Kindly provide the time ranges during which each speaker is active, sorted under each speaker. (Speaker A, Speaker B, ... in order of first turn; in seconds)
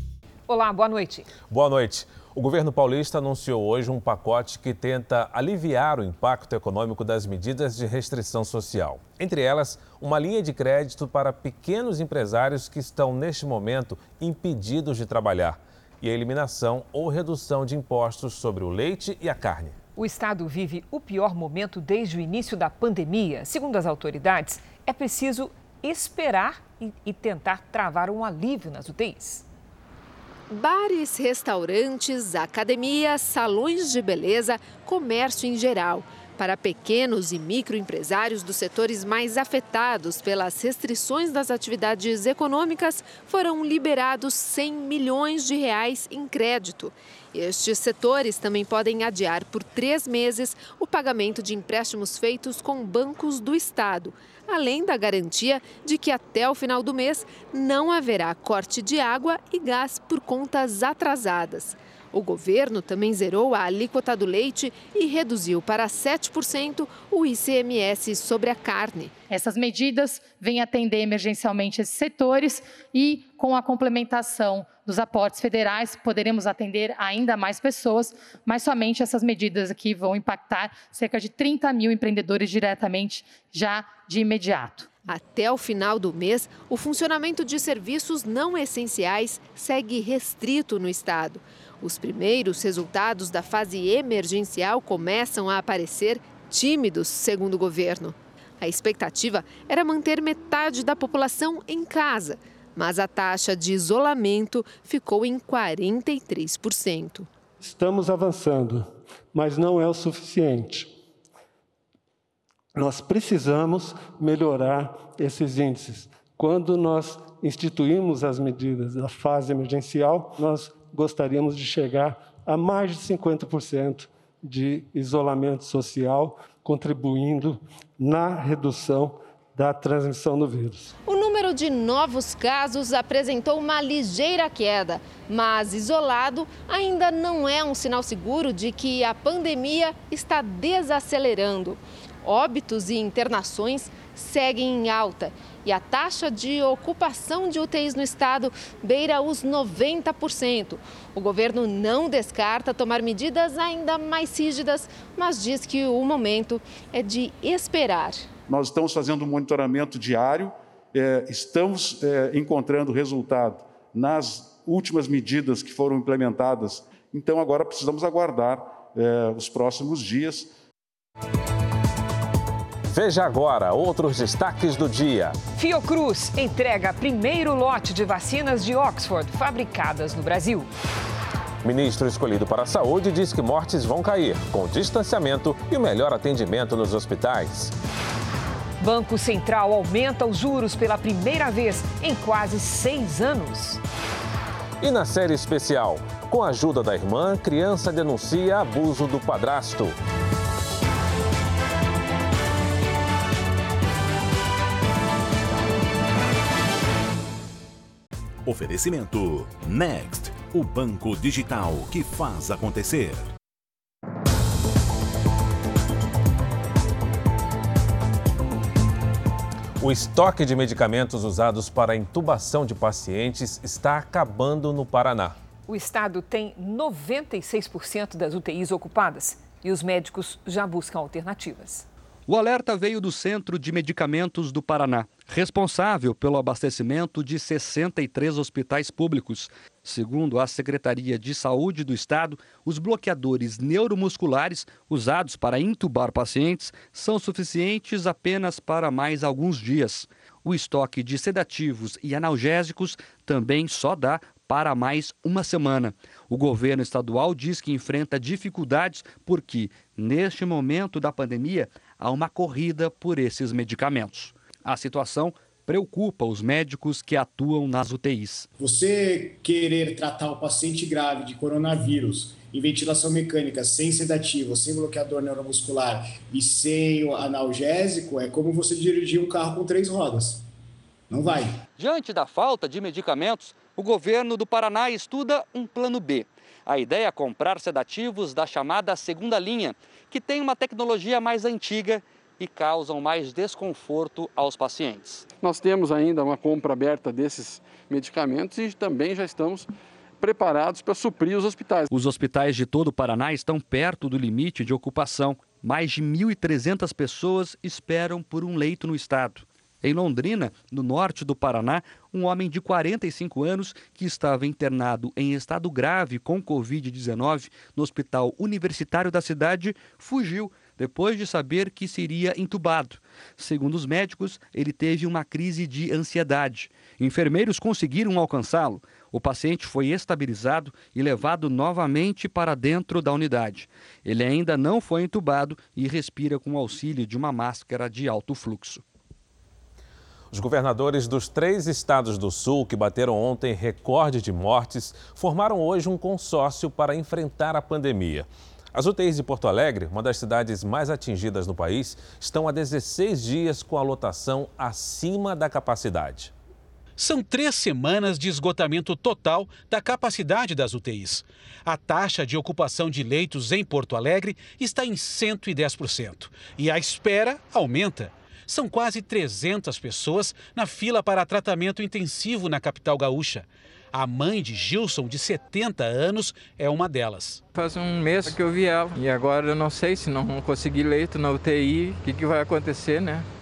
Speaker A: 0.5-1.3, 19.9-29.4, 175.6-180.7, 188.8-193.8, 225.7-231.8
Speaker B: 1.5-19.8, 172.8-175.4, 181.6-187.7, 194.8-199.9, 219.8-225.4, 340.3-356.3
Speaker C: 30.5-69.1, 85.1-107.3, 131.1-158.3
Speaker D: 69.3-84.9
Speaker E: 107.6-110.9, 112.8-130.9
Speaker F: 158.5-170.5
Speaker G: 208.4-213.3
Speaker H: 232.3-268.5, 281.8-295.3, 301.9-338.8
Speaker I: 268.6-280.4, 281.1-281.5
Speaker J: 295.4-299.7, 300.2-301.9
Speaker K: 357.0-377.4
Speaker L: 377.5-383.3